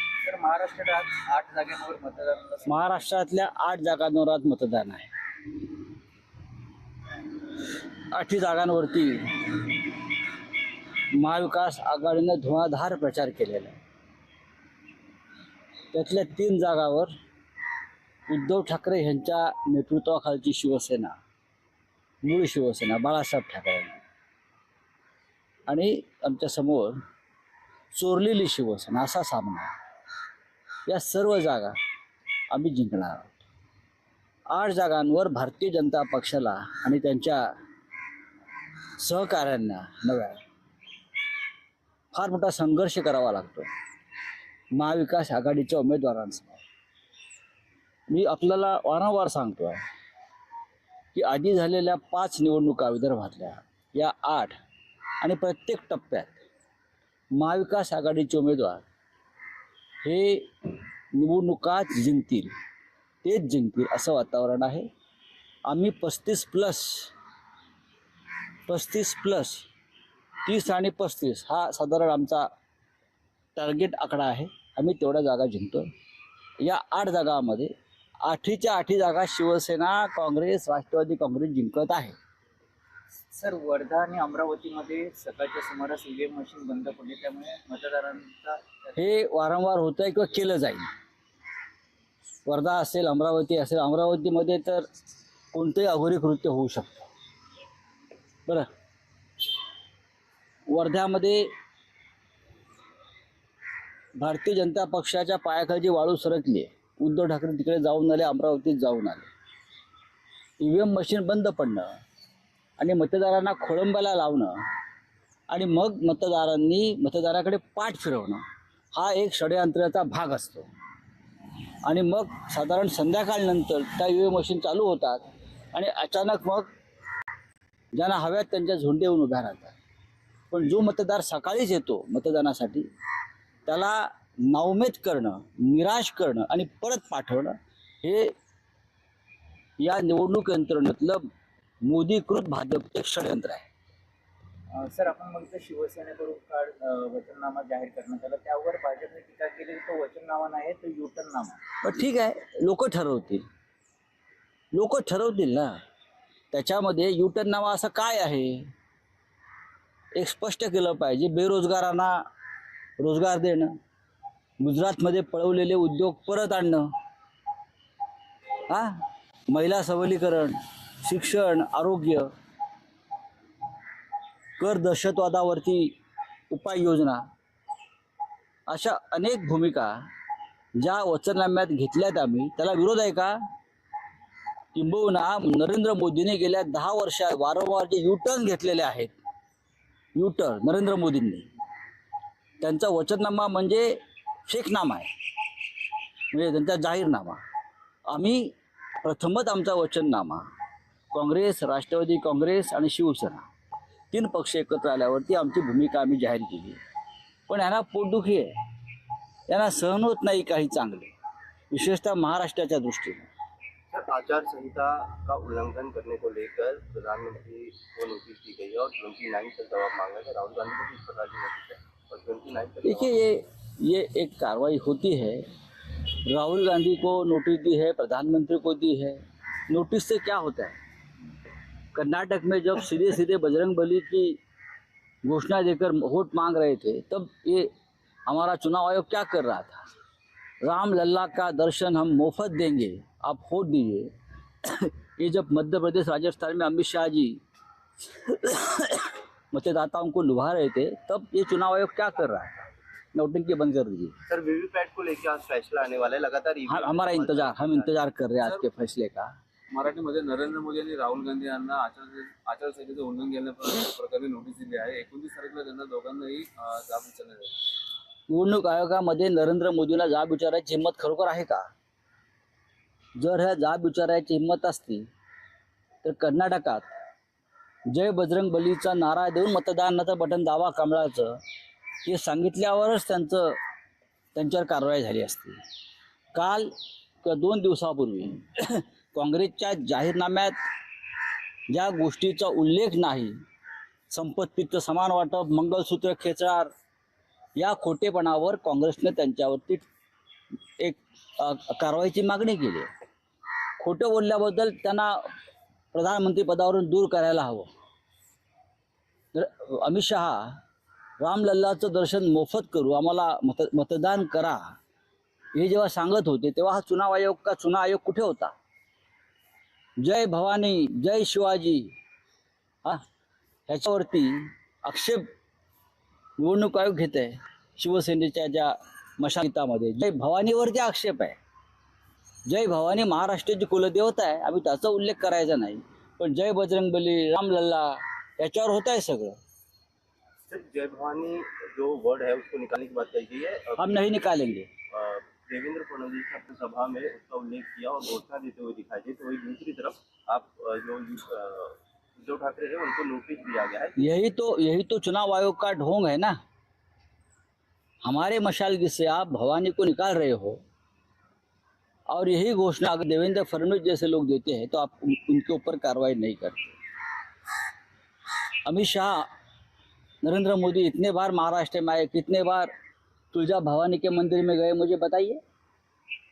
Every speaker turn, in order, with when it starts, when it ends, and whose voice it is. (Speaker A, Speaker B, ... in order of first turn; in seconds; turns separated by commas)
Speaker A: 0.2-2.7, Speaker B: 2.6-5.1, Speaker B: 7.6-9.9, Speaker B: 11.1-13.8, Speaker B: 15.9-17.1, Speaker B: 18.3-21.2, Speaker B: 22.2-24.0, Speaker B: 25.6-27.0, Speaker B: 27.9-29.7, Speaker B: 30.9-31.8, Speaker B: 32.5-33.4, Speaker B: 34.5-37.5, Speaker B: 39.0-40.4, Speaker B: 42.1-43.7, Speaker B: 44.7-46.6, Speaker B: 48.1-49.8, Speaker B: 51.1-54.6, Speaker B: 55.2-56.4, Speaker B: 57.3-58.8, Speaker B: 60.0-62.5, Speaker B: 63.2-64.9, Speaker B: 65.6-67.1, Speaker B: 68.7-69.7, Speaker B: 70.4-72.5, Speaker B: 73.5-75.9, Speaker B: 76.6-82.1, Speaker A: 83.3-88.6, Speaker B: 89.0-90.9, Speaker B: 92.4-94.8, Speaker B: 95.5-97.1, Speaker B: 100.7-101.5, Speaker B: 104.2-109.3, Speaker B: 110.6-112.0, Speaker B: 112.8-114.6, Speaker B: 115.5-118.4, Speaker B: 118.9-120.7, Speaker B: 121.8-126.7, Speaker B: 127.9-129.8, Speaker B: 130.5-132.9, Speaker B: 133.7-138.3, Speaker B: 139.8-141.3, Speaker B: 141.8-143.7, Speaker A: 144.7-151.7, Speaker B: 151.8-153.4, Speaker B: 154.7-155.8, Speaker B: 156.5-158.7, Speaker B: 160.1-162.2, Speaker B: 163.0-163.8, Speaker B: 164.6-166.9, Speaker B: 168.7-172.3, Speaker B: 174.6-176.0, Speaker B: 176.5-177.2, Speaker B: 178.7-180.1, Speaker B: 180.8-183.4, Speaker B: 184.7-189.1, Speaker B: 190.1-191.5, Speaker B: 192.6-195.1, Speaker B: 196.3-197.4, Speaker B: 198.1-200.4, Speaker B: 201.1-203.5, Speaker B: 204.1-206.8, Speaker B: 207.5-208.5, Speaker B: 209.5-211.1, Speaker B: 211.7-213.2, Speaker C: 213.9-223.2, Speaker B: 222.8-230.8, Speaker B: 231.9-234.4, Speaker B: 235.2-237.7, Speaker B: 238.2-239.8, Speaker B: 240.6-247.4, Speaker B: 248.0-254.1, Speaker C: 254.3-257.9, Speaker B: 256.7-259.3, Speaker D: 259.7-267.6, Speaker B: 268.3-271.7, Speaker B: 273.1-275.1, Speaker B: 276.0-276.9, Speaker B: 277.9-281.4, Speaker B: 282.0-283.6, Speaker B: 284.3-285.6, Speaker B: 286.3-290.6, Speaker B: 291.7-293.4, Speaker B: 294.1-296.7, Speaker B: 297.6-299.9, Speaker B: 300.8-302.9, Speaker B: 303.8-305.3, Speaker B: 305.9-307.7, Speaker B: 309.3-310.6, Speaker B: 311.2-314.8, Speaker B: 315.5-318.5, Speaker B: 320.0-321.9, Speaker B: 323.7-325.3, Speaker B: 326.4-331.4, Speaker B: 332.4-339.4, Speaker C: 340.5-343.9, Speaker B: 343.8-344.7, Speaker C: 344.9-354.0, Speaker B: 353.9-356.4, Speaker B: 358.0-360.6, Speaker B: 362.1-366.8, Speaker B: 368.6-369.3, Speaker B: 370.2-372.7, Speaker B: 373.3-375.4